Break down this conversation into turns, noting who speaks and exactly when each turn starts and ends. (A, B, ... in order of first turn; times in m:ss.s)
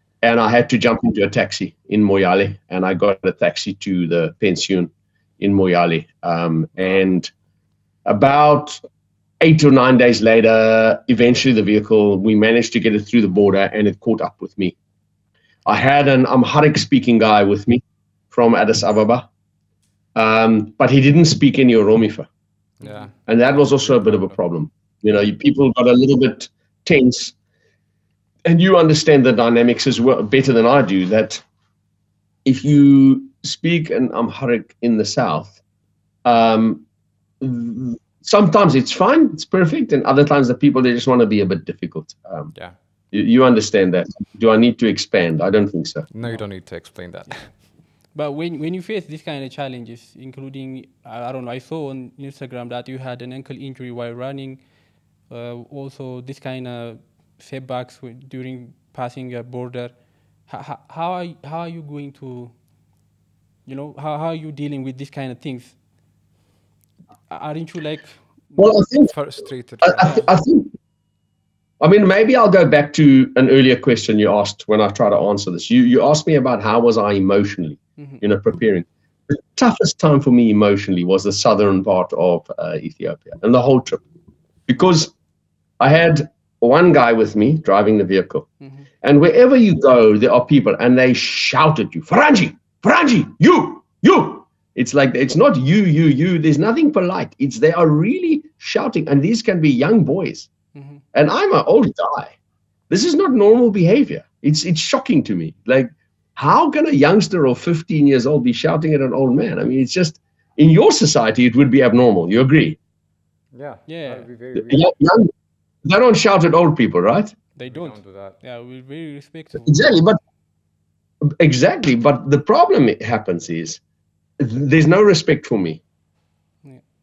0:00.2-0:07.3 A
0:08.1-0:08.8 A
0:09.4-0:14.8 A
0:15.7-0:19.3 A
0:20.2-0:22.3 A
0:22.8-0:23.2 B
0:22.8-0:23.1 C
0:23.3-0:27.4 A
0:23.9-0:24.3 B
0:28.5-0:31.4 A
0:32.4-0:35.6 A
0:36.2-0:36.8 A
0:37.4-0:42.5 A
0:43.1-0:46.1 A
0:46.1-0:47.5 B
0:47.2-0:54.6 C
0:55.3-1:02.5 C
1:03.7-1:05.8 C
1:07.3-1:08.7 C
1:08.6-1:09.1 A
1:09.1-1:10.3 B
1:09.8-1:10.7 A
1:11.8-1:24.0 A
1:24.7-1:25.1 A
1:25.8-1:28.5 A
1:29.0-1:40.5 A
1:40.8-1:41.0 C
1:41.1-1:42.3 A
1:42.9-1:52.8 A
1:53.5-1:54.9 B
1:53.9-1:54.3 C
1:54.6-1:55.3 A
1:55.8-1:57.3 A
1:57.6-2:00.0 C
1:57.7-1:58.4 B
1:59.7-2:00.2 A
2:01.2-2:03.8 A
2:04.4-2:05.8 A